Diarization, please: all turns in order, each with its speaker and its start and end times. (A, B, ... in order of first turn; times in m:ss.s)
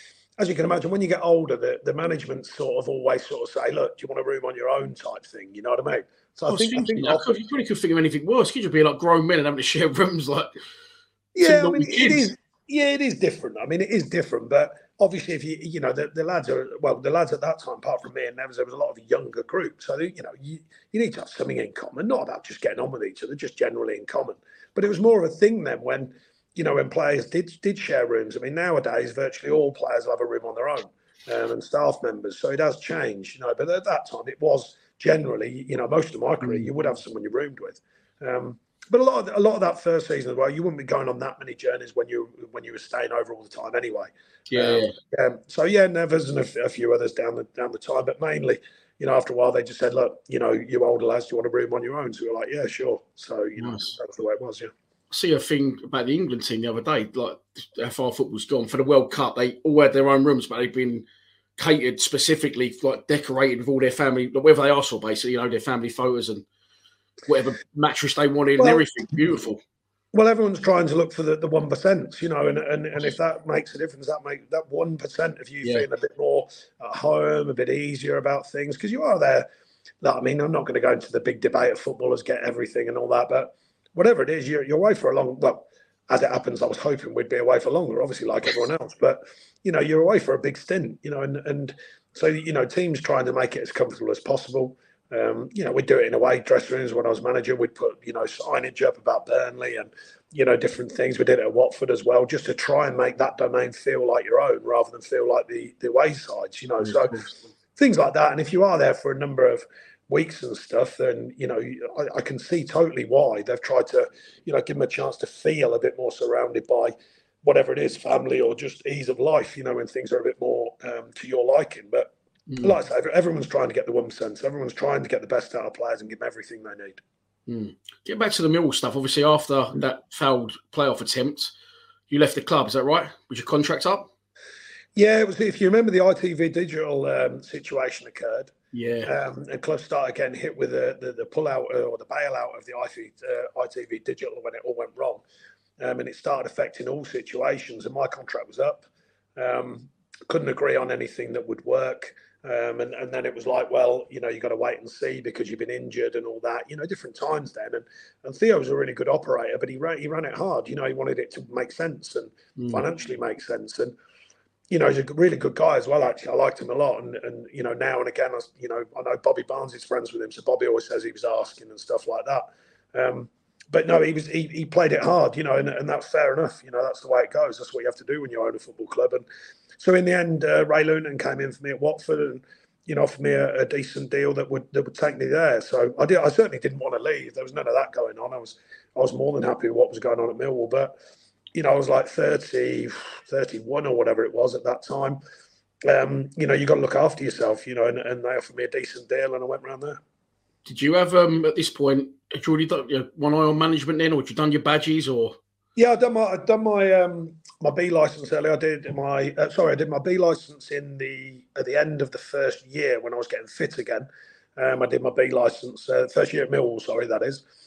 0:00.4-0:07.3 A
0:06.4-0:10.5 B
0:11.3-0:54.7 A
0:11.4-0:12.3 B
0:36.4-0:36.7 B
0:44.5-0:44.9 B
0:53.6-0:53.9 B
0:55.1-1:01.0 B
1:01.6-1:06.4 B
1:07.2-1:09.6 B
1:08.6-1:08.8 A
1:10.1-1:19.5 A
1:20.0-1:47.2 A
1:46.8-1:47.3 B
1:47.8-1:56.9 A
1:57.4-2:07.0 A
2:02.5-2:02.8 B
2:07.5-2:11.5 B
2:12.1-2:14.1 B
2:15.0-2:18.5 A
2:18.7-2:19.1 B
2:19.0-2:25.2 A
2:25.8-2:28.8 A
2:29.4-2:43.9 A
2:42.6-2:42.8 B
2:44.7-2:59.2 A
2:59.8-3:10.9 A
3:11.5-3:15.2 A
3:15.8-3:20.0 A
3:20.6-3:25.4 B
3:25.8-3:37.4 A